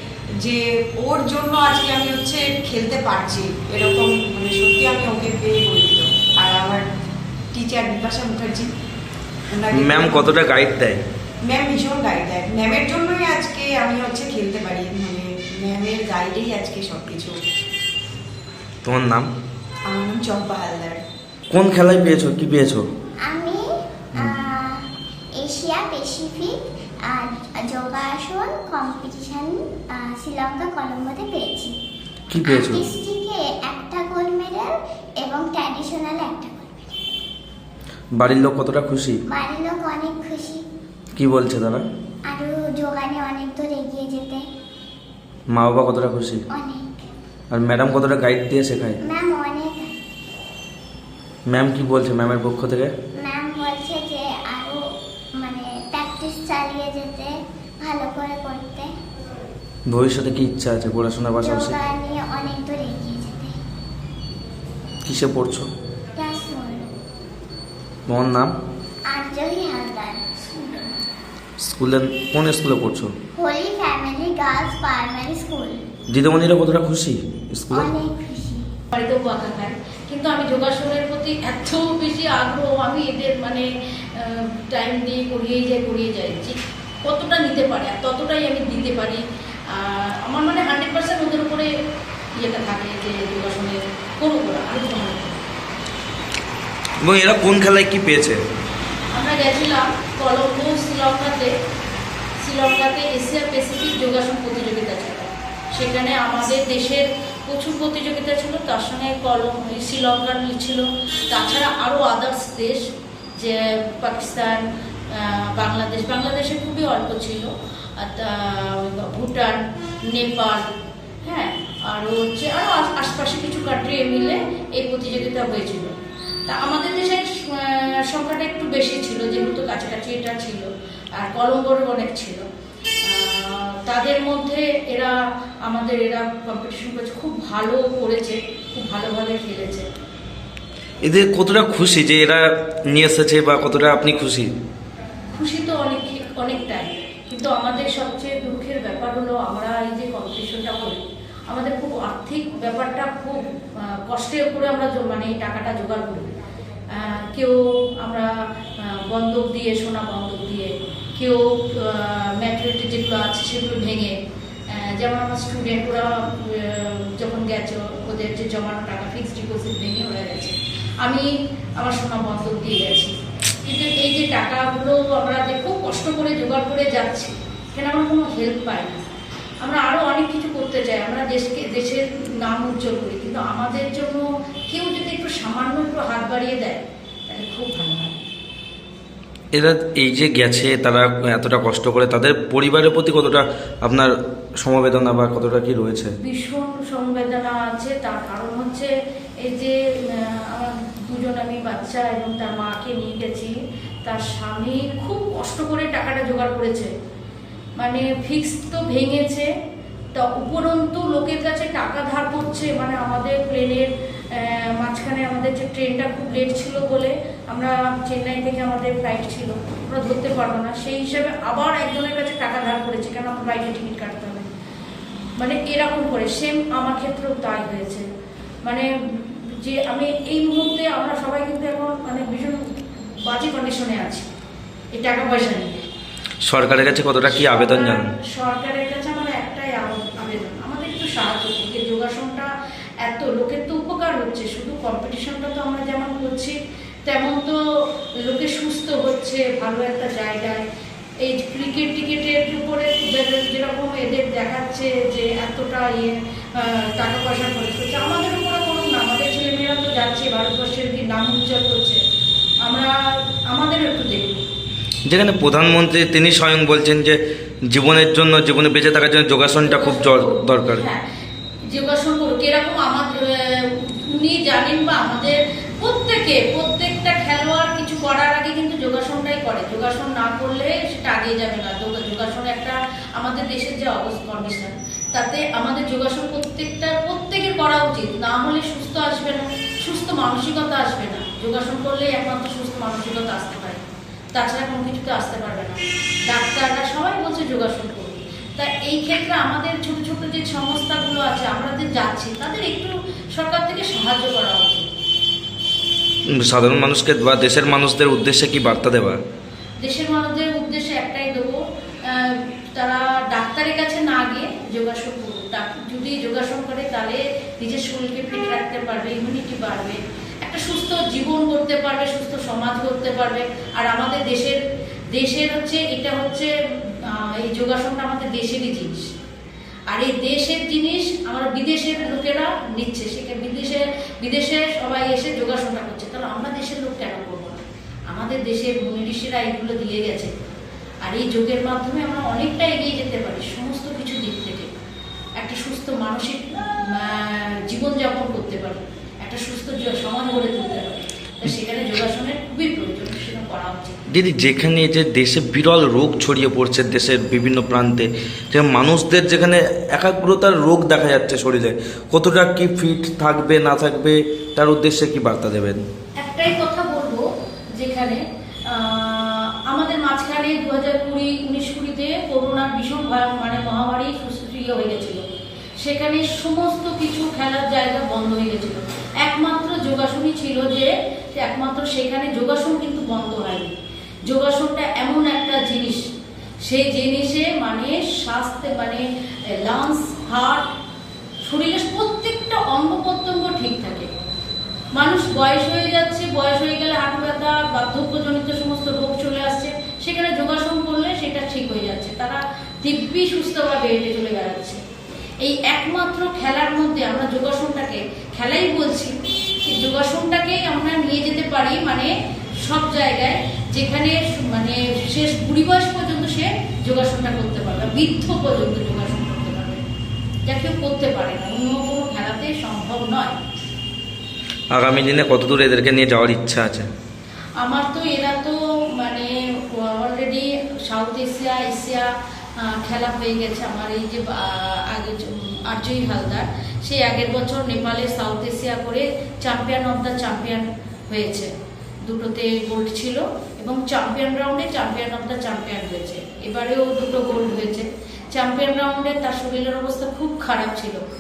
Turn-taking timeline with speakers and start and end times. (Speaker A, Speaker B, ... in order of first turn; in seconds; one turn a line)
Speaker A: 0.4-6.8
Speaker A: 7.5-8.7
Speaker A: 9.5-10.4
Speaker B: 9.8-11.0
Speaker A: 11.4-17.4
Speaker B: 18.9-19.3
Speaker A: 19.9-21.0
Speaker B: 21.5-22.9
Speaker C: 23.2-23.7
Speaker C: 24.2-24.8
Speaker C: 25.4-26.6
Speaker C: 27.1-31.8
Speaker B: 32.3-32.9
Speaker C: 32.4-36.9
Speaker B: 38.1-39.2
Speaker C: 39.3-40.6
Speaker B: 41.1-41.9
Speaker C: 42.3-44.5
Speaker B: 45.5-46.4
Speaker C: 46.5-47.0
Speaker B: 47.5-49.0
Speaker C: 49.1-49.9
Speaker B: 51.5-52.9
Speaker C: 53.2-54.8
Speaker C: 55.4-57.3
Speaker C: 57.8-58.9
Speaker B: 59.9-61.8
Speaker C: 61.4-63.5
Speaker B: 65.0-65.7
Speaker C: 66.2-66.9
Speaker B: 68.1-68.5
Speaker C: 69.1-71.0
Speaker B: 71.6-73.1
Speaker C: 73.4-75.8
Speaker B: 76.1-77.9
Speaker C: 77.7-78.6
Speaker D: 78.9-91.7
Speaker D: 92.4-95.4
Speaker B: 97.0-98.4
Speaker D: 99.1-101.5
Speaker D: 102.4-112.8
Speaker D: 113.4-114.6
Speaker D: 115.1-120.7
Speaker D: 121.2-125.9
Speaker D: 126.5-130.7
Speaker D: 131.2-132.4
Speaker D: 133.0-135.1
Speaker D: 135.7-139.9
Speaker B: 141.0-144.5
Speaker D: 145.3-153.4
Speaker D: 154.1-156.3
Speaker D: 156.9-158.3
Speaker D: 158.9-164.2
Speaker D: 164.7-171.3
Speaker D: 171.8-173.1
Speaker D: 173.6-179.1
Speaker D: 179.6-188.2
Speaker B: 189.5-196.2
Speaker D: 196.2-198.9
Speaker D: 199.4-203.5
Speaker D: 204.1-206.9
Speaker D: 207.8-209.5
Speaker D: 210.1-224.5
Speaker D: 225.4-228.1
Speaker D: 228.7-232.6
Speaker D: 233.2-234.3
Speaker D: 234.9-235.9
Speaker B: 236.4-238.1
Speaker D: 237.5-242.5
Speaker D: 243.0-246.6
Speaker D: 247.1-247.6
Speaker D: 248.2-250.6
Speaker D: 251.2-262.0
Speaker D: 262.6-262.9
Speaker D: 263.5-264.4
Speaker B: 265.1-270.9
Speaker D: 269.6-271.0
Speaker D: 271.7-293.8
Speaker D: 294.3-304.9
Speaker B: 306.3-309.2
Speaker D: 309.8-324.6
Speaker D: 325.1-326.5
Speaker D: 327.1-329.1
Speaker D: 329.9-340.3
Speaker D: 341.0-344.7
Speaker D: 345.4-354.0
Speaker B: 354.1-365.8
Speaker D: 366.2-367.2
Speaker D: 367.8-375.2
Speaker D: 375.8-383.7
Speaker D: 384.3-386.0
Speaker D: 386.6-389.0
Speaker D: 389.6-390.7
Speaker D: 391.4-394.1
Speaker D: 394.9-404.8
Speaker D: 405.4-419.8
Speaker D: 420.4-423.4
Speaker B: 424.7-426.9
Speaker D: 427.6-432.1
Speaker D: 432.7-441.5
Speaker D: 442.1-451.0